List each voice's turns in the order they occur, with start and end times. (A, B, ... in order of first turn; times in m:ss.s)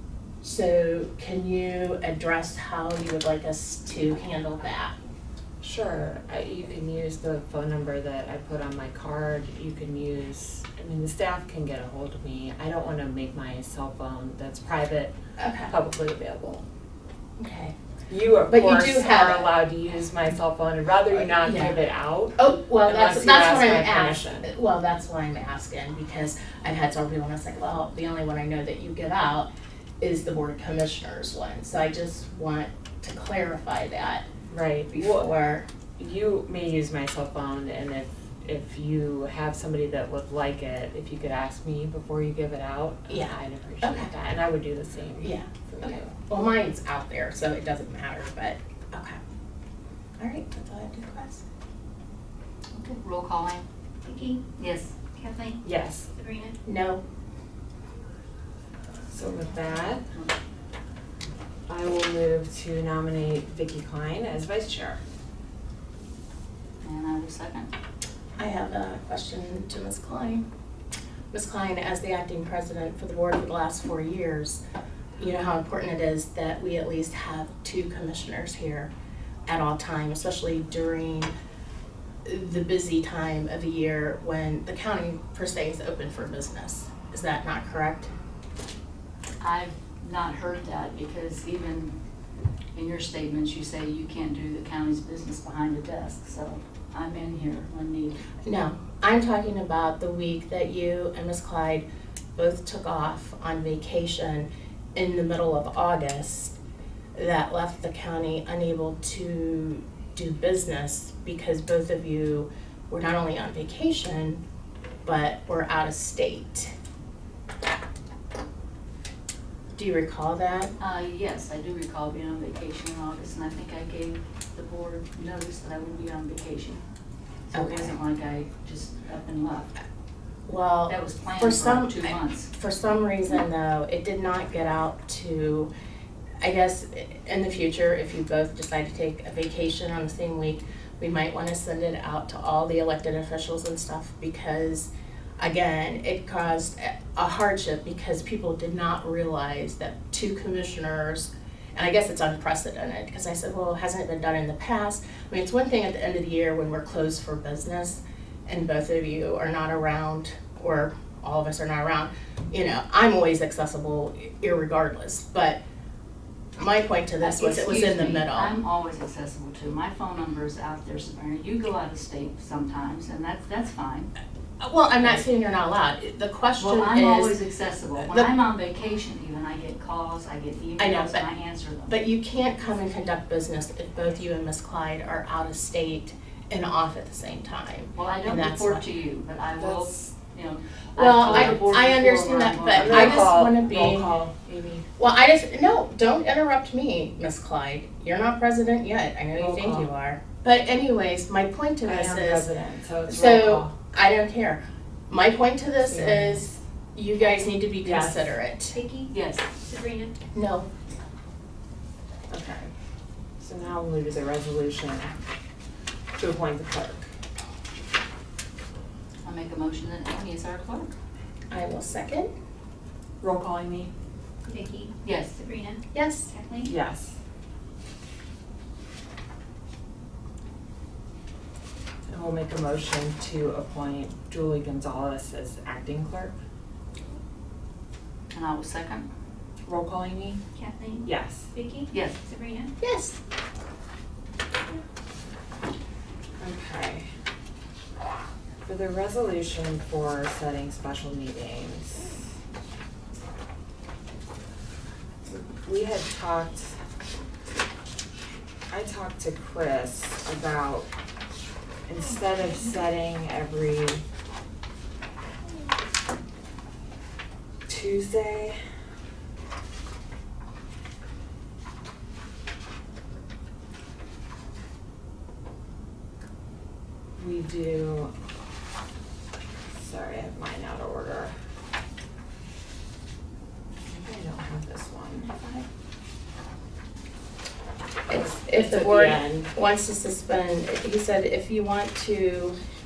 0:00.4-0:04.9 A
0:05.6-0:15.1 B
0:15.4-0:15.7 A
0:15.7-0:16.6 B
0:17.4-0:17.8 A
0:18.1-0:24.5 B
0:18.5-0:19.6 A
0:21.2-0:21.8 A
0:22.4-0:29.5 A
0:30.0-0:34.2 A
0:34.5-0:35.3 B
0:34.9-0:35.7 A
0:36.0-0:46.1 B
0:43.1-0:44.1 A
0:45.2-0:49.2 A
0:50.2-0:51.4 A
0:52.7-0:53.7 C
0:54.0-0:54.4 D
0:54.6-0:55.0 C
0:55.1-0:55.6 D
0:55.6-0:56.1 B
0:56.2-0:56.6 D
0:56.6-0:57.0 A
0:59.1-1:00.0 B
1:01.7-1:05.0 B
1:06.8-1:07.7 C
1:08.4-1:10.4 A
1:11.3-1:14.6 A
1:15.2-1:18.9 A
1:19.5-1:21.3 A
1:22.2-1:28.1 A
1:29.4-1:31.9 C
1:32.7-1:38.2 C
1:38.4-1:41.8 A
1:42.4-1:46.6 A
1:47.2-1:54.4 A
1:55.0-1:56.7 A
1:59.8-2:00.7 A
2:00.8-2:06.8 C
2:07.5-2:08.0 A
2:07.5-2:09.7 C
2:10.5-2:15.7 A
2:10.9-2:12.5 C
2:16.4-2:45.6 A
2:46.6-2:48.5 A
2:47.2-2:54.1 C
2:54.6-2:57.4 A
2:56.6-3:01.9 C
3:00.8-3:01.2 A
3:01.9-3:08.8 A
3:07.9-3:13.4 C
3:09.6-3:09.9 B
3:11.0-3:14.1 A
3:11.2-3:11.7 B
3:12.7-3:14.8 B
3:15.0-3:22.5 A
3:19.3-3:19.9 B
3:21.8-3:23.7 B
3:23.1-3:28.8 A
3:25.8-3:26.6 B
3:27.8-3:28.2 B
3:28.7-3:30.1 D
3:29.1-3:29.5 C
3:30.3-3:30.7 A
3:32.3-3:32.7 B
3:33.4-3:35.1 B
3:36.2-3:37.1 B
3:39.2-3:40.9 C
3:41.5-3:42.3 A
3:43.2-3:43.9 B
3:44.4-3:46.7 D
3:45.0-3:45.4 C
3:45.9-3:46.3 A
3:46.6-3:47.1 B
3:52.1-3:56.4 B
3:58.3-3:59.1 C
3:59.7-4:00.4 B
4:00.6-4:02.7 D
4:01.0-4:01.5 B
4:01.9-4:02.2 C
4:02.8-4:03.2 A
4:06.4-4:07.1 B
4:08.6-4:12.1 B
4:15.3-4:16.7 B
4:18.7-4:20.9 B
4:21.9-4:24.0 B
4:27.7-4:28.6 B
4:37.2-4:38.1 B
4:39.8-4:41.3 B
4:43.9-4:45.7 B
4:48.1-4:52.6 A
4:48.1-4:49.5 B